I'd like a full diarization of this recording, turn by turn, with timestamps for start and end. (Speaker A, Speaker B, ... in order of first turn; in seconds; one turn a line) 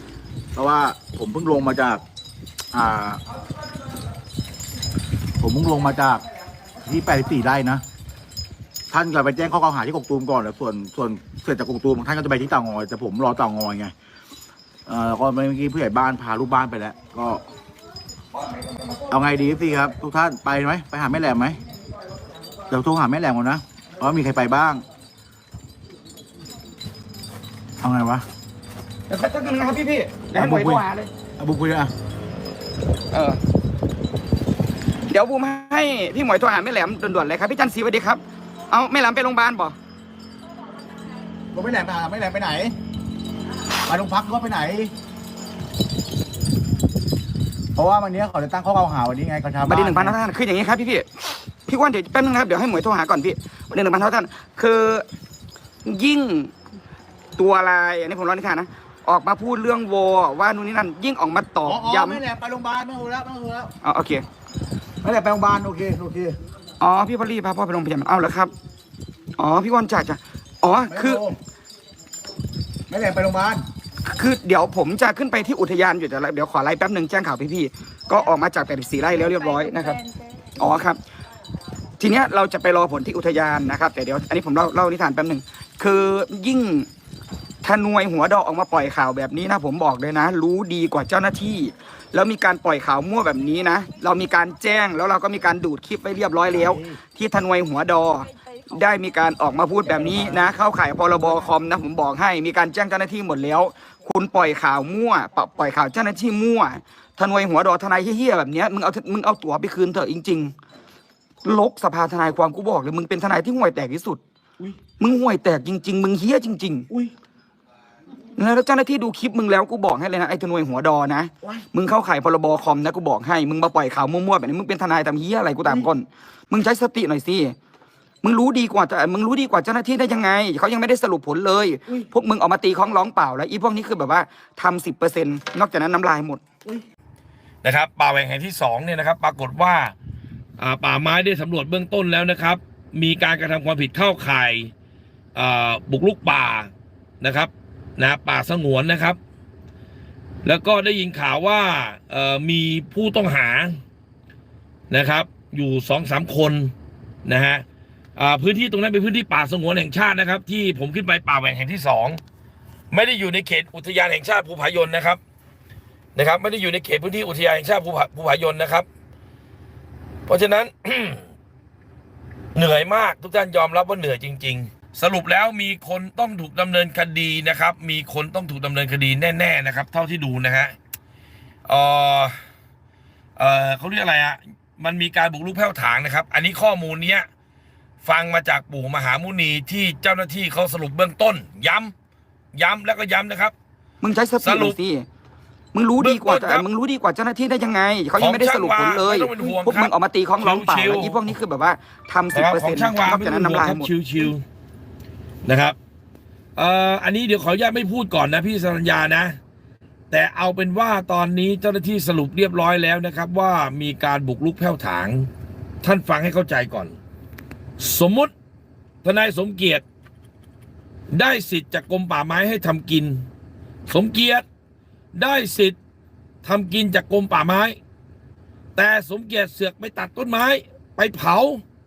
Speaker A: 0.5-2.0
Speaker A: 2.7-3.2
Speaker A: 5.4-6.2
Speaker A: 6.8-7.8
Speaker A: 8.9-13.9
Speaker A: 14.9-17.4
Speaker A: 19.1-21.6
Speaker A: 22.7-24.8
Speaker A: 27.8-28.2
Speaker B: 29.1-31.1
Speaker A: 30.4-30.8
Speaker A: 31.4-31.9
Speaker B: 33.1-33.4
Speaker B: 35.1-39.8
Speaker A: 41.5-42.7
Speaker A: 43.9-44.9
Speaker A: 47.8-50.2
Speaker B: 49.6-51.1
Speaker B: 51.6-55.0
Speaker B: 55.8-56.5
Speaker B: 57.4-62.2
Speaker A: 61.6-63.7
Speaker B: 63.8-64.2
Speaker A: 65.0-66.3
Speaker B: 66.8-68.5
Speaker B: 69.4-71.2
Speaker A: 70.9-71.3
Speaker A: 72.9-73.6
Speaker B: 74.0-80.0
Speaker B: 80.6-81.0
Speaker B: 82.0-86.9
Speaker B: 87.6-110.5
Speaker A: 96.5-97.0
Speaker A: 99.9-100.4
Speaker B: 111.4-114.2
Speaker B: 115.0-116.9
Speaker B: 118.3-127.5
Speaker B: 128.2-136.4
Speaker C: 137.6-139.9
Speaker C: 140.6-144.7
Speaker C: 145.3-149.2
Speaker C: 150.4-153.8
Speaker C: 154.9-156.7
Speaker C: 157.2-157.6
Speaker C: 158.2-162.2
Speaker C: 162.9-165.2
Speaker C: 166.1-168.8
Speaker C: 170.3-171.2
Speaker C: 172.5-180.7
Speaker C: 181.7-182.3
Speaker C: 183.4-187.3
Speaker C: 188.0-191.9
Speaker C: 192.5-193.5
Speaker B: 194.0-195.1
Speaker C: 194.4-194.8
Speaker B: 195.7-203.9
Speaker C: 196.0-196.7
Speaker C: 198.2-201.3
Speaker C: 202.3-204.4
Speaker C: 205.4-205.8
Speaker C: 206.6-209.4
Speaker C: 210.1-215.3
Speaker C: 215.8-216.9
Speaker C: 217.8-218.3
Speaker C: 219.0-219.8
Speaker C: 221.1-223.2
Speaker C: 223.9-224.4
Speaker C: 225.1-225.8
Speaker C: 226.4-227.8
Speaker C: 228.8-231.6